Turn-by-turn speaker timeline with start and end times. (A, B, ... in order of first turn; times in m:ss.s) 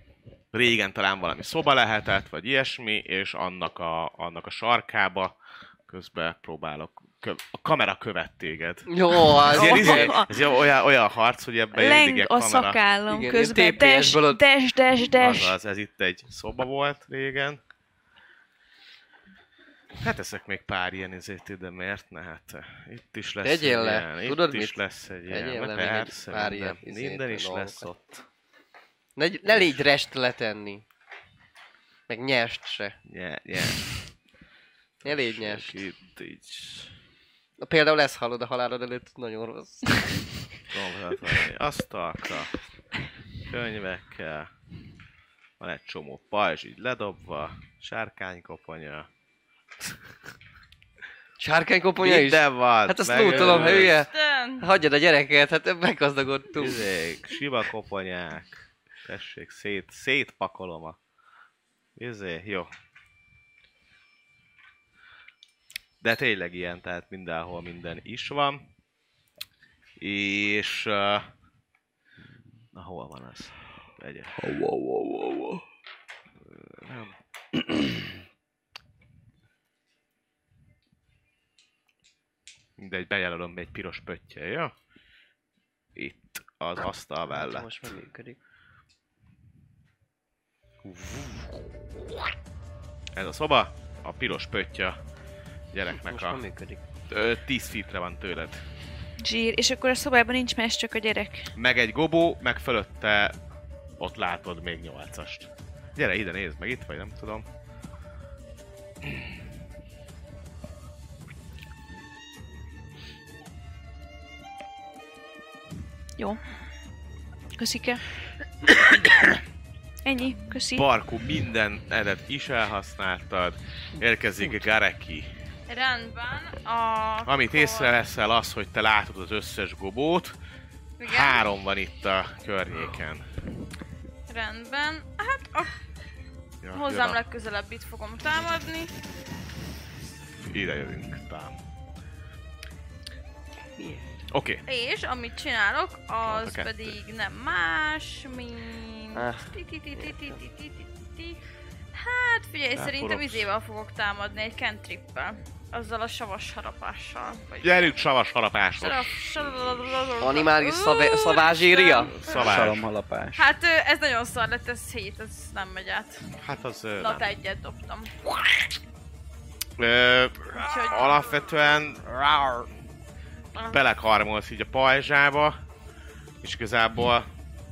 0:00.5-0:05.3 A
0:05.9-0:12.8 A
0:08.9-0:10.2 B
0:09.5-0:10.4 C
0:11.7-0:15.6 C
0:13.1-0:14.4 B
0:15.2-0:17.6 A
0:20.0-0:28.2 A
0:23.4-0:27.9 B
0:29.2-0:30.8 B
0:29.4-0:29.8 A
0:32.1-0:33.0 B
0:33.1-0:34.0 A
0:35.0-0:36.9 A
0:35.0-0:35.8 B
0:37.6-0:40.0 B
0:40.7-0:42.5 A
0:43.5-0:44.5 A
0:45.6-0:49.1 A
0:51.4-0:56.9 B
0:52.0-0:54.0 A
0:53.6-0:54.6 D
0:56.6-1:01.0 A
1:02.0-1:02.7 A
1:06.0-1:08.6 A
1:10.0-1:11.3 A
1:12.7-1:14.4 A
1:14.3-1:15.6 E
1:16.4-1:17.1 A
1:22.8-1:24.7 A
1:26.0-1:27.7 A
1:27.3-1:28.4 B
1:30.8-1:31.9 A
1:33.2-1:35.0 A
1:35.7-1:36.4 A
1:36.0-1:36.8 B
1:37.1-1:38.6 A
1:39.2-1:41.5 C
1:41.6-1:43.3 A
1:44.0-1:47.4 A
1:57.6-1:58.0 C
2:00.0-2:00.9 C
2:00.7-2:05.3 A
2:05.7-2:08.0 D
2:07.2-2:10.4 A
2:11.0-2:11.4 D
2:11.0-2:13.2 A
2:14.3-2:15.8 D
2:16.6-2:17.2 A
2:16.7-2:18.9 D
2:20.4-2:21.5 A
2:23.8-2:24.0 B
2:24.3-2:24.6 A
2:24.7-2:37.9 D
2:26.2-2:27.0 A
2:29.1-2:30.4 B
2:32.7-2:33.5 A
2:37.6-2:40.4 A
2:38.8-2:42.6 D
2:40.2-2:42.1 B
2:42.0-2:42.8 A
2:42.3-2:43.4 E
2:43.3-2:46.2 D
2:46.4-2:47.3 A
2:47.0-2:48.1 D
2:49.8-2:52.7 A
2:50.5-2:51.5 D
2:53.6-2:55.6 A
2:56.4-2:57.3 A